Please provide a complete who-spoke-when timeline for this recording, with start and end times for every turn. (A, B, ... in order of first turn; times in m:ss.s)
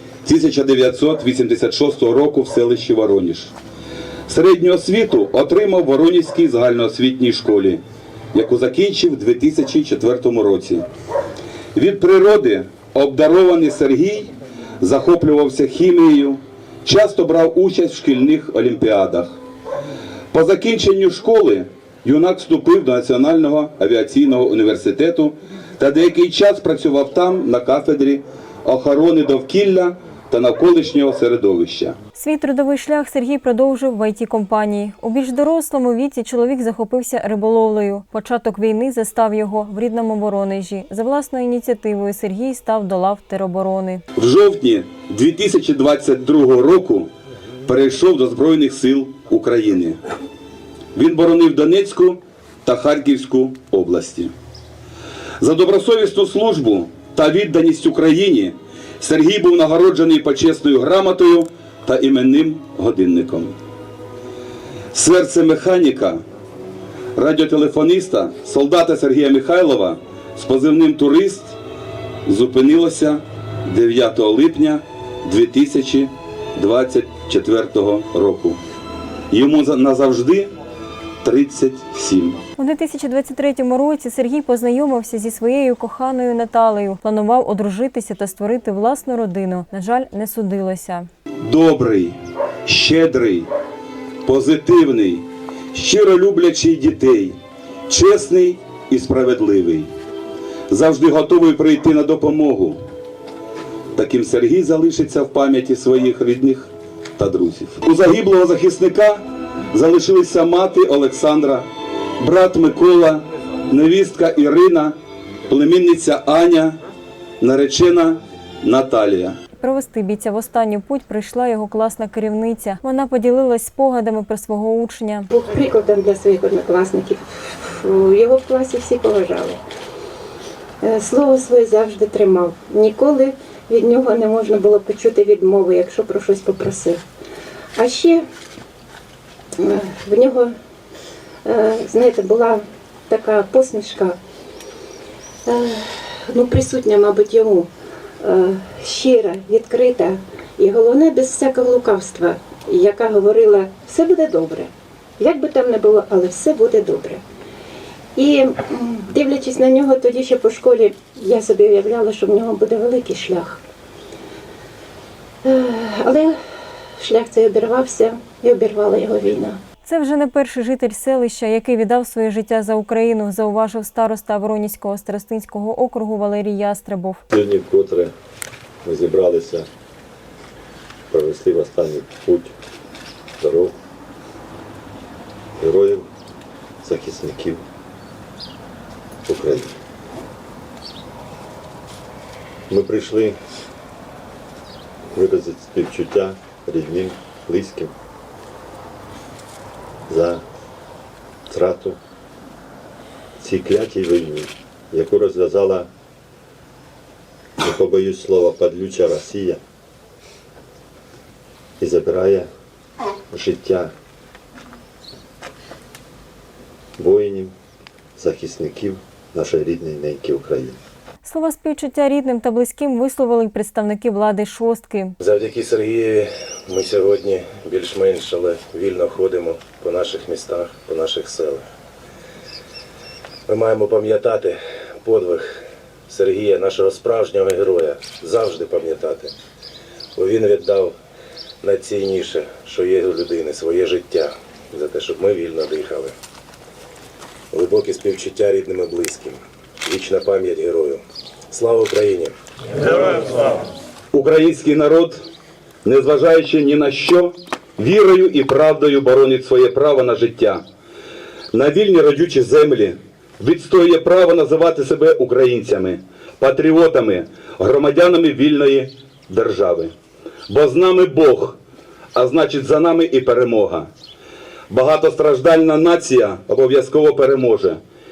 0:00.2-0:03.5 A
0:04.3-0:07.8 A
0:08.3-0:10.8 A
0:11.8-0:19.3 A
0:20.3-0:32.0 A
0:32.2-0:44.0 B
0:44.2-0:47.1 A
0:47.6-0:50.0 A
0:51.0-0:54.3 A
0:55.4-1:03.5 A
1:04.9-1:06.2 A
1:07.2-1:11.6 A
1:12.2-1:18.6 A
1:19.3-1:20.5 A
1:21.2-1:22.4 A
1:22.6-1:31.1 B
1:31.4-1:33.5 A
1:34.2-1:37.4 A
1:37.9-1:39.9 A
1:40.7-1:42.8 A
1:44.0-1:51.7 A
1:52.2-1:55.0 A
1:55.5-1:56.8 A
1:57.4-1:59.4 A
1:59.6-2:05.3 B
2:05.3-2:09.6 C
2:10.8-2:17.0 C
2:17.8-2:18.2 C
2:19.6-2:20.5 C
2:21.4-2:24.2 C
2:25.5-2:37.2 C
2:38.2-2:43.6 C
2:45.4-2:46.4 C
2:47.0-2:49.6 C
2:49.9-2:57.2 B
2:57.3-2:58.1 D
2:58.8-2:59.7 D
3:01.1-3:02.5 D
3:03.4-3:03.7 D
3:05.6-3:06.1 D
3:06.8-3:07.6 D
3:09.3-3:09.7 D
3:12.7-3:13.4 D
3:15.1-3:17.9 D
3:20.1-3:20.4 D
3:21.5-3:22.0 D
3:23.4-3:25.9 D
3:27.6-3:29.6 D
3:31.8-3:32.5 D
3:33.3-3:33.9 D
3:37.0-3:37.5 D
3:38.2-3:40.8 D
3:41.2-3:45.2 B
3:45.2-3:51.6 E
3:53.5-3:55.5 E
3:56.1-3:59.3 E
4:00.2-4:01.0 E
4:01.6-4:06.1 E
4:07.5-4:12.3 E
4:12.9-4:13.3 E
4:14.1-4:15.2 A
4:15.8-4:20.6 A
4:21.5-4:29.9 A
4:30.5-4:31.6 A
4:32.2-4:33.9 A
4:34.7-4:37.8 A